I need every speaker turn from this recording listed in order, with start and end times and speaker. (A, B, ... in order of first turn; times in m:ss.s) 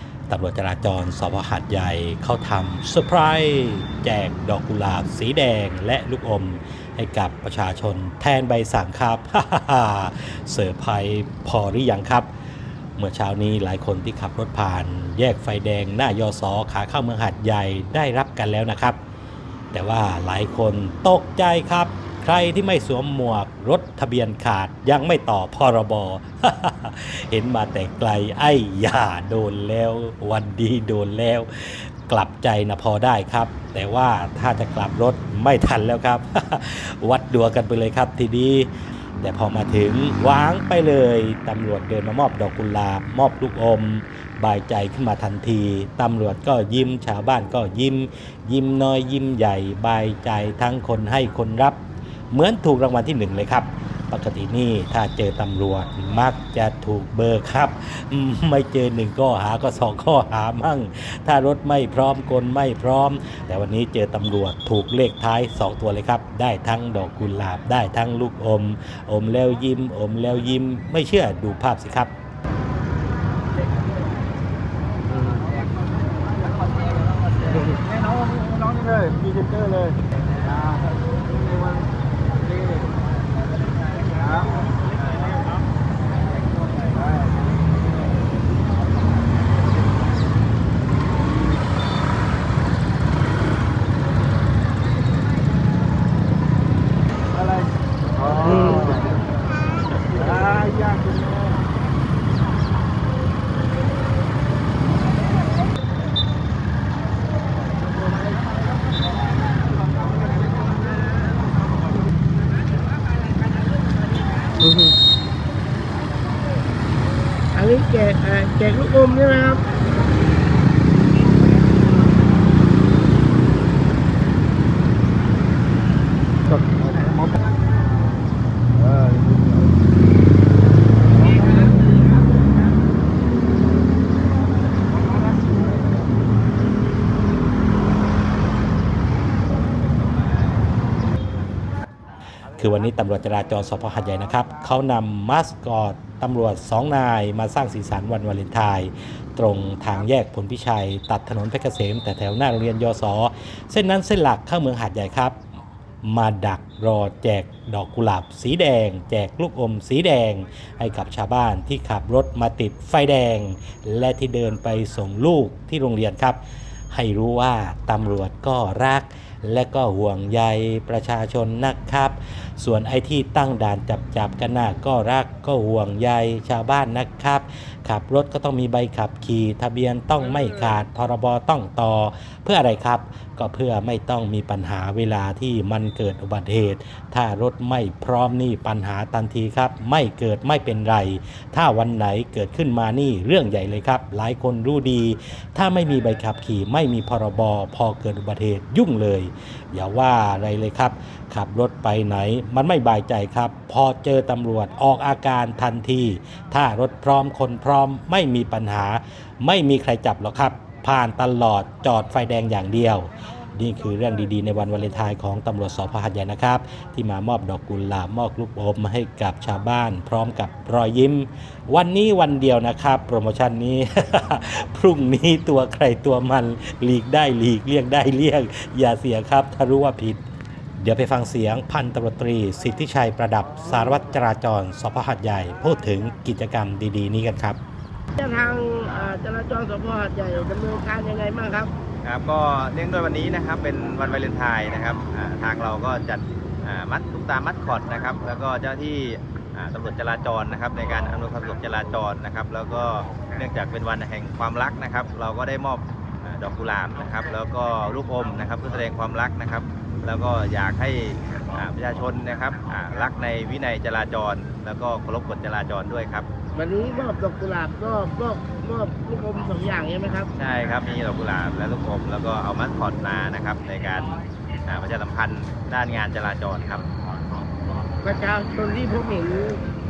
0:00.3-0:12.3 A
0:13.0-0:19.0 A
0:19.7-0:51.8 A
0:52.3-1:12.1 A
1:17.5-1:20.0 B
1:21.3-1:21.8 B
1:38.2-1:39.2 B
1:38.4-1:38.9 C
1:40.2-1:41.6 B
1:47.9-1:48.4 C
1:54.6-1:54.9 C
1:57.5-1:59.7 C
2:22.6-2:35.4 A
2:36.0-2:46.4 A
2:46.9-3:50.2 A
3:50.8-3:57.6 A
3:58.2-4:01.7 C
4:02.0-4:26.3 D
4:26.5-4:30.3 C
4:30.4-4:36.9 D
4:38.0-4:39.6 C